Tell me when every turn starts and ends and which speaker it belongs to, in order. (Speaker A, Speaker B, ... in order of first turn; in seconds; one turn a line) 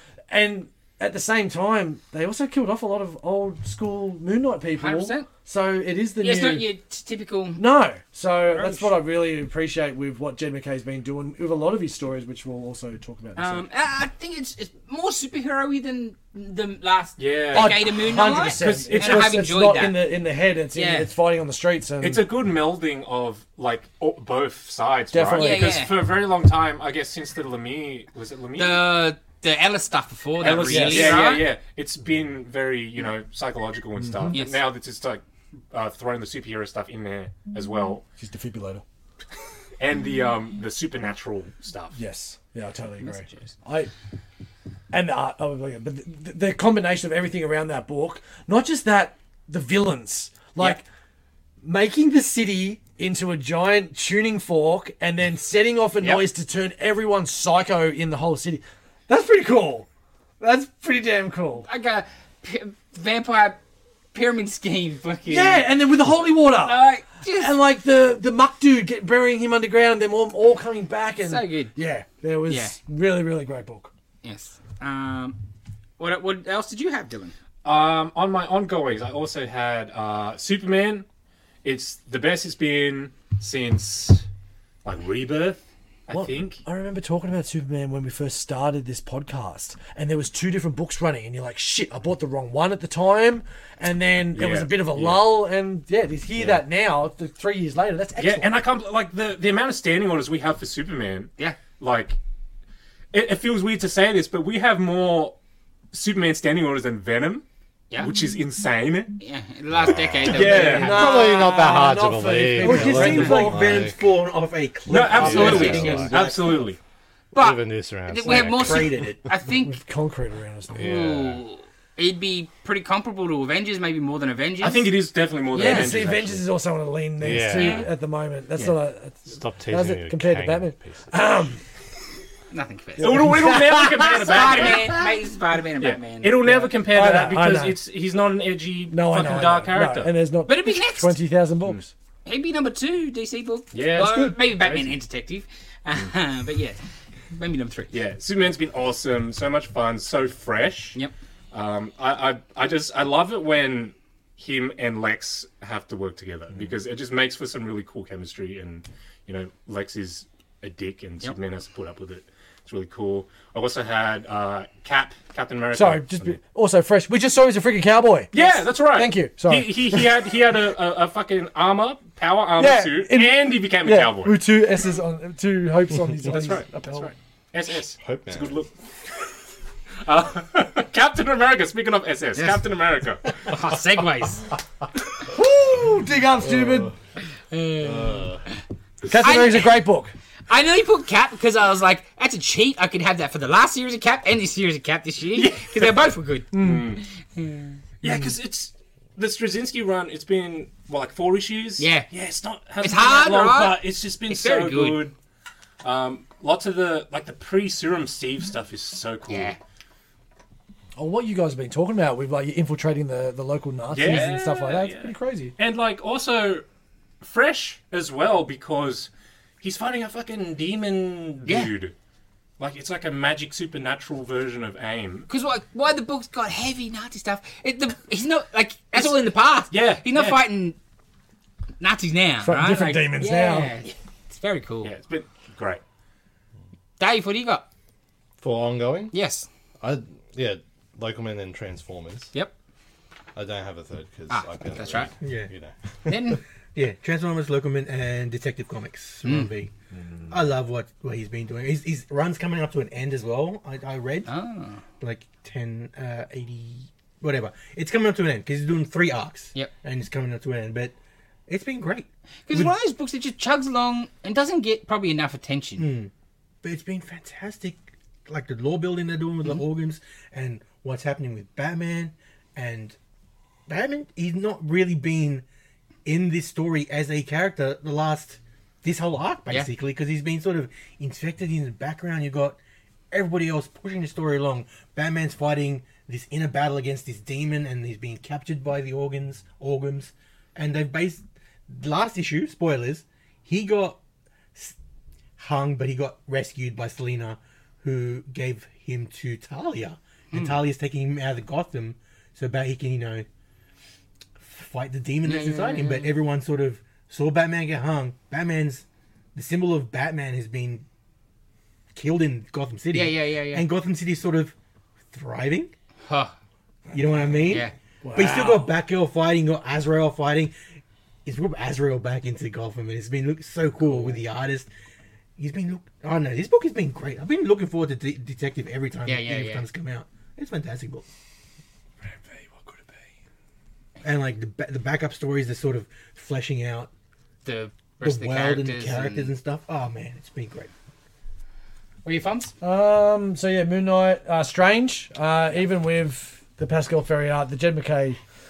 Speaker A: 0.3-6.7
Speaker B: 4.8-5.3
Speaker B: 6.2-7.6
Speaker A: 7.6-13.6
Speaker B: 8.5-8.9
Speaker B: 13.4-20.0
Speaker C: 17.2-19.4
Speaker A: 17.5-22.2
Speaker B: 20.7-21.1
Speaker C: 22.0-28.8
Speaker A: 25.1-25.8
Speaker B: 25.4-25.9
Speaker B: 28.6-31.4
Speaker C: 30.4-38.0
Speaker A: 30.6-31.2
Speaker A: 34.0-34.4
Speaker B: 34.3-34.6
Speaker A: 38.2-38.8
Speaker C: 39.8-42.0
Speaker A: 41.9-43.9
Speaker B: 43.0-43.5
Speaker A: 44.9-50.8
Speaker A: 51.6-59.9
Speaker A: 60.4-61.7
Speaker B: 61.6-63.6
Speaker B: 64.1-65.7
Speaker A: 65.3-73.9
Speaker B: 66.5-67.5
Speaker B: 71.2-71.7
Speaker B: 72.5-72.8
Speaker B: 74.2-75.4
Speaker B: 76.0-77.3
Speaker C: 77.6-81.0
Speaker C: 81.6-84.2
Speaker C: 84.8-86.6
Speaker A: 86.1-98.6
Speaker C: 94.3-95.4
Speaker C: 98.2-102.2
Speaker C: 103.1-105.4
Speaker C: 105.9-107.4
Speaker C: 108.0-109.2
Speaker B: 109.2-111.3
Speaker D: 109.7-114.1
Speaker C: 110.2-111.0
Speaker A: 110.3-113.8
Speaker E: 110.6-111.0
Speaker E: 112.6-116.7
Speaker C: 114.9-116.8
Speaker D: 115.1-116.2
Speaker B: 115.3-115.9
Speaker B: 117.3-119.8
Speaker D: 117.3-118.9
Speaker E: 118.3-119.2
Speaker A: 119.5-120.9
Speaker D: 120.7-121.4
Speaker B: 120.8-124.8
Speaker C: 124.6-126.4
Speaker A: 125.5-131.6
Speaker B: 125.5-126.0
Speaker D: 127.2-127.8
Speaker B: 127.5-127.9
Speaker D: 129.3-131.1
Speaker B: 132.5-133.4
Speaker A: 133.0-134.9
Speaker C: 133.0-134.9
Speaker B: 134.2-136.4
Speaker C: 135.8-140.1
Speaker A: 136.4-137.8
Speaker A: 138.9-141.9
Speaker B: 140.4-141.2
Speaker B: 142.2-146.8
Speaker C: 143.7-144.9
Speaker B: 147.3-148.0
Speaker C: 147.9-151.0
Speaker C: 151.5-166.4
Speaker A: 165.7-170.2
Speaker C: 168.3-174.4
Speaker A: 172.6-177.1
Speaker C: 176.2-179.3
Speaker D: 178.0-178.6
Speaker C: 180.0-183.6
Speaker B: 183.5-184.5
Speaker A: 185.3-186.9
Speaker D: 186.4-186.9
Speaker B: 187.5-188.2
Speaker D: 187.8-188.4
Speaker A: 189.1-190.1
Speaker B: 189.2-189.8
Speaker B: 190.5-197.8
Speaker C: 195.3-197.0
Speaker A: 196.5-196.9
Speaker C: 198.0-205.2
Speaker B: 201.8-202.1
Speaker B: 202.8-205.1
Speaker C: 205.8-209.6
Speaker B: 209.3-209.6
Speaker A: 210.9-215.5
Speaker C: 213.9-216.6
Speaker C: 217.2-219.1
Speaker C: 219.6-221.9
Speaker B: 221.4-221.7
Speaker C: 222.6-225.3
Speaker B: 225.3-230.8
Speaker C: 229.7-230.4
Speaker B: 231.8-234.9
Speaker A: 232.4-233.7
Speaker C: 234.8-235.8
Speaker B: 237.0-237.7
Speaker D: 238.4-239.1
Speaker B: 239.1-239.5
Speaker D: 239.8-242.3
Speaker D: 243.3-246.1
Speaker B: 244.3-245.1
Speaker E: 245.2-245.5
Speaker B: 246.1-246.4
Speaker E: 246.7-249.7
Speaker B: 249.2-249.5
Speaker A: 249.9-250.3
Speaker E: 250.3-254.3
Speaker B: 254.3-254.8
Speaker E: 255.0-260.9
Speaker E: 261.5-262.7
Speaker B: 262.5-265.9
Speaker E: 265.8-266.1
Speaker E: 266.6-272.9
Speaker E: 273.7-275.4
Speaker E: 276.0-282.6
Speaker E: 283.1-294.0
Speaker E: 295.4-303.3
Speaker B: 300.3-300.6
Speaker E: 304.4-310.8
Speaker B: 305.2-306.1
Speaker E: 311.9-314.5
Speaker B: 312.9-313.6
Speaker E: 315.1-315.7
Speaker B: 316.1-316.3
Speaker E: 316.9-320.5
Speaker B: 317.5-317.7
Speaker A: 318.0-318.7
Speaker E: 321.2-324.7
Speaker E: 325.4-331.0
Speaker B: 329.1-329.7
Speaker A: 332.0-333.1
Speaker E: 334.0-336.9
Speaker B: 337.4-339.3
Speaker E: 338.0-340.7
Speaker B: 342.0-342.5
Speaker A: 342.6-348.2